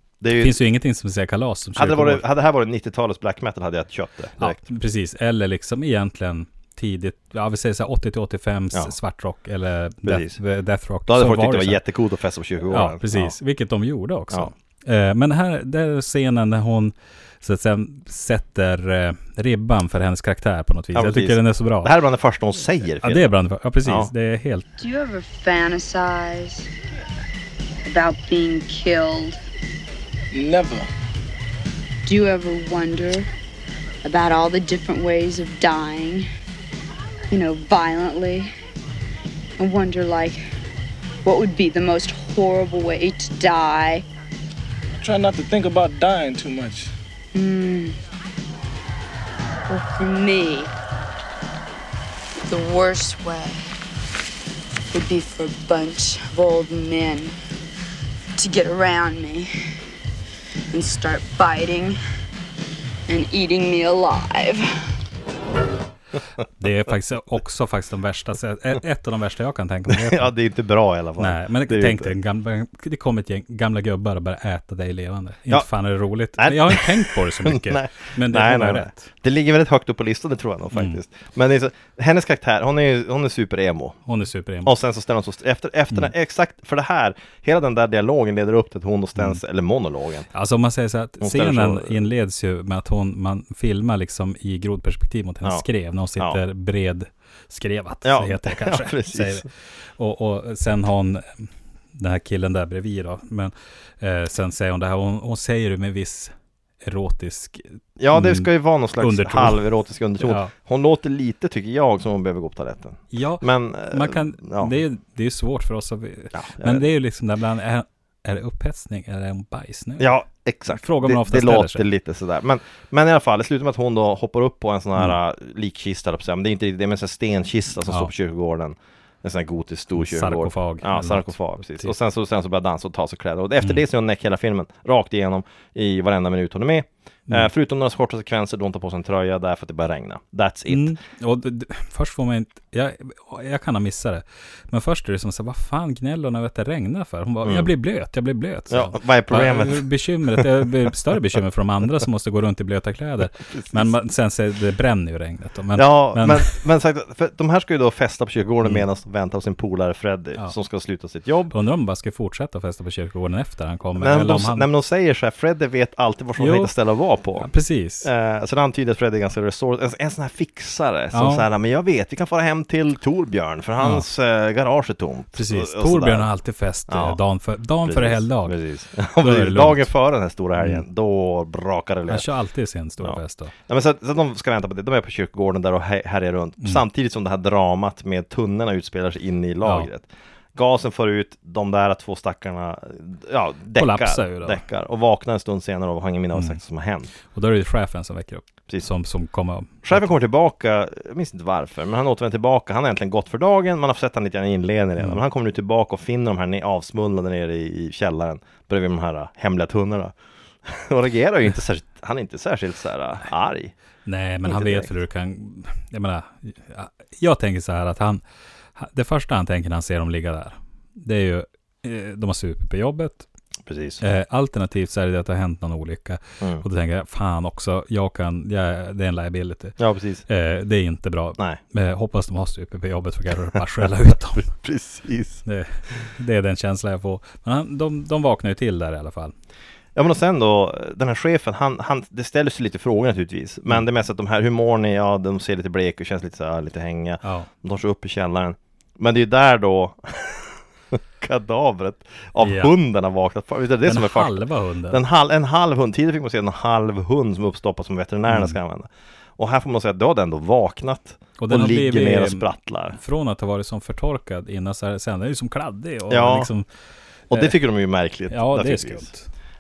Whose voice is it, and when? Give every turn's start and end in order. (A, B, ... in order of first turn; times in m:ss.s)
0:00.2-0:00.6 A
0:00.3-0:02.2 B
0:01.8-0:04.6 A
0:04.4-0:11.8 B
0:10.0-0:10.4 A
0:11.1-0:13.3 A
0:12.7-0:21.9 B
0:20.9-0:23.3 A
0:23.0-0:24.6 B
0:23.8-0:24.1 A
0:24.8-0:26.7 C
0:27.8-0:29.4 C
0:30.3-0:30.9 D
0:32.0-0:33.3 C
0:34.0-0:36.2 C
0:37.3-0:38.5 C
0:39.6-0:40.5 C
0:41.2-0:44.0 C
0:44.9-0:46.9 D
0:47.3-0:48.0 C
0:49.7-0:50.7 C
0:52.5-0:53.6 C
0:54.9-0:57.3 C
0:58.4-0:59.5 C
1:00.7-1:02.0 C
1:03.1-1:04.6 C
1:06.6-1:10.3 B
1:09.9-1:12.1 A
1:11.2-1:19.1 B
1:16.4-1:24.0 A
1:20.7-1:21.0 B
1:24.0-1:24.7 B
1:24.6-1:30.3 A
1:30.3-1:49.6 B
1:31.2-1:32.0 A
1:38.0-1:39.4 A
1:48.0-1:54.7 A
1:50.2-1:50.5 B
1:53.1-2:00.1 B
1:56.3-1:56.8 A
2:00.0-2:21.0 A
2:00.7-2:01.9 B
2:09.9-2:11.9 B
2:20.7-2:36.5 B
2:27.4-2:27.7 A
2:28.7-2:30.6 A
2:33.5-2:33.9 A
2:35.7-2:41.5 A
2:41.5-2:44.6 B
2:44.0-2:47.5 A
2:46.4-2:46.7 B
2:47.4-2:48.1 B
2:48.0-2:56.3 A
2:51.1-2:51.5 B
2:53.8-2:54.0 B
2:55.3-2:58.6 B
2:56.9-2:57.2 A
2:57.8-3:02.2 A
2:59.2-2:59.9 B
3:00.6-3:00.8 B
3:02.1-3:03.5 B
3:03.0-3:17.1 A
3:13.8-3:14.6 B
3:17.3-3:20.1 B
3:19.8-3:33.7 A
3:34.0-3:38.2 B
3:34.4-3:34.9 A
3:38.8-3:43.2 B
3:43.7-3:44.0 A
3:44.0-3:54.5 B
3:49.8-3:50.2 A
3:54.5-3:55.4 A
3:55.4-3:59.3 B
3:59.9-4:14.4 A
4:07.2-4:07.5 B
4:12.4-4:12.7 B
4:13.8-4:15.0 B
4:14.9-4:23.0 A
4:18.3-4:18.6 B
4:21.4-4:26.7 B
4:26.1-4:26.5 A
4:27.3-4:29.1 A
4:28.3-4:29.3 B